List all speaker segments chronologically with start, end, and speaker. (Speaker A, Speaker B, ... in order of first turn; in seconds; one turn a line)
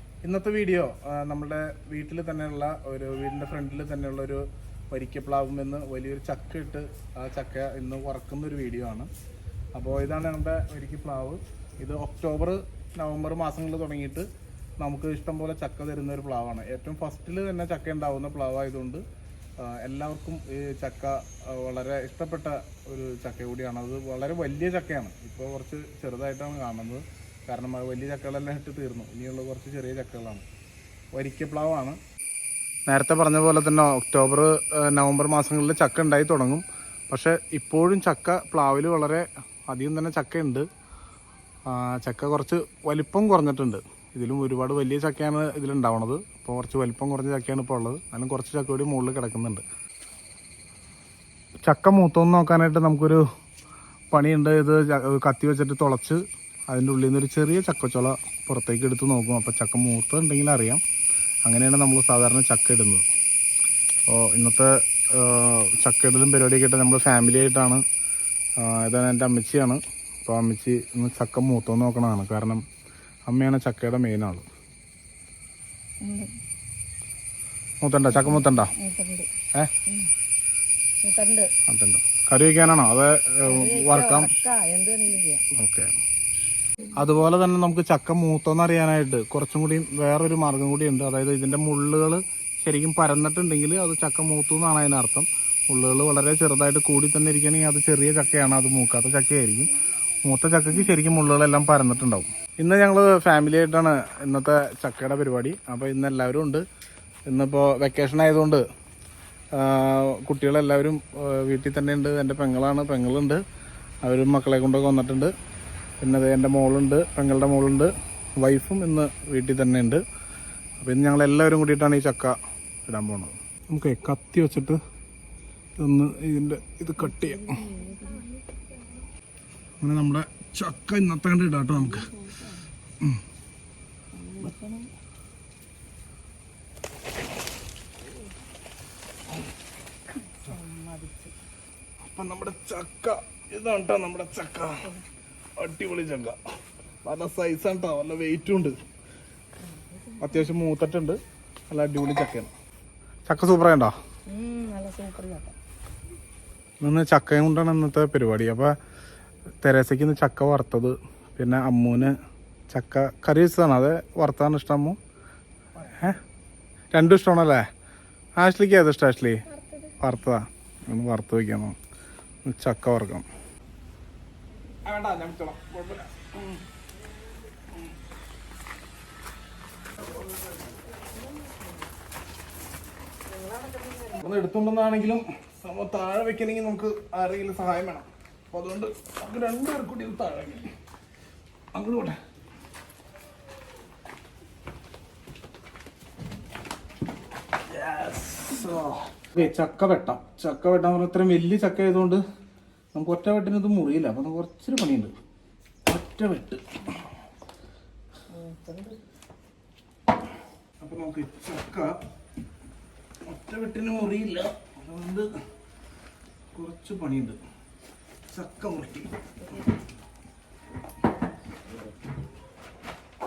Speaker A: 0.2-9.1
Speaker A: 9.8-14.3
Speaker A: 14.8-19.0
Speaker A: 19.6-30.4
Speaker A: 31.1-32.0
Speaker A: 32.9-40.7
Speaker A: 41.7-49.6
Speaker A: 51.7-53.2
Speaker A: 54.1-60.8
Speaker A: 61.5-63.0
Speaker A: 64.1-67.8
Speaker A: 68.6-72.7
Speaker A: 73.3-74.5
Speaker B: 76.0-76.3
Speaker A: 77.8-78.7
Speaker B: 78.1-79.3
Speaker B: 81.0-81.5
Speaker A: 81.7-84.3
Speaker B: 83.5-85.5
Speaker A: 85.5-85.9
Speaker A: 87.0-99.7
Speaker A: 100.2-106.6
Speaker A: 107.3-108.6
Speaker A: 109.5-113.4
Speaker A: 114.0-115.3
Speaker A: 116.0-120.0
Speaker A: 120.8-124.8
Speaker A: 125.8-127.6
Speaker B: 127.0-128.6
Speaker A: 129.8-132.1
Speaker B: 131.8-132.6
Speaker B: 134.1-134.9
Speaker B: 140.1-141.3
Speaker A: 142.1-144.9
Speaker A: 145.6-146.4
Speaker A: 147.0-148.8
Speaker B: 149.6-150.5
Speaker A: 150.2-151.2
Speaker A: 151.7-152.5
Speaker A: 153.3-153.9
Speaker B: 154.3-155.6
Speaker A: 156.8-158.8
Speaker A: 159.6-162.1
Speaker A: 162.7-165.0
Speaker A: 165.8-166.2
Speaker A: 166.9-167.7
Speaker A: 168.4-171.8
Speaker A: 172.4-173.3
Speaker A: 174.8-176.6
Speaker B: 180.1-181.9
Speaker B: 183.3-184.3
Speaker A: 184.2-190.7
Speaker A: 191.7-192.2
Speaker A: 197.7-202.2
Speaker A: 202.9-205.1
Speaker A: 205.9-206.7
Speaker B: 208.3-209.0
Speaker A: 210.8-212.0
Speaker A: 213.3-215.3
Speaker A: 216.5-217.4
Speaker A: 218.3-219.2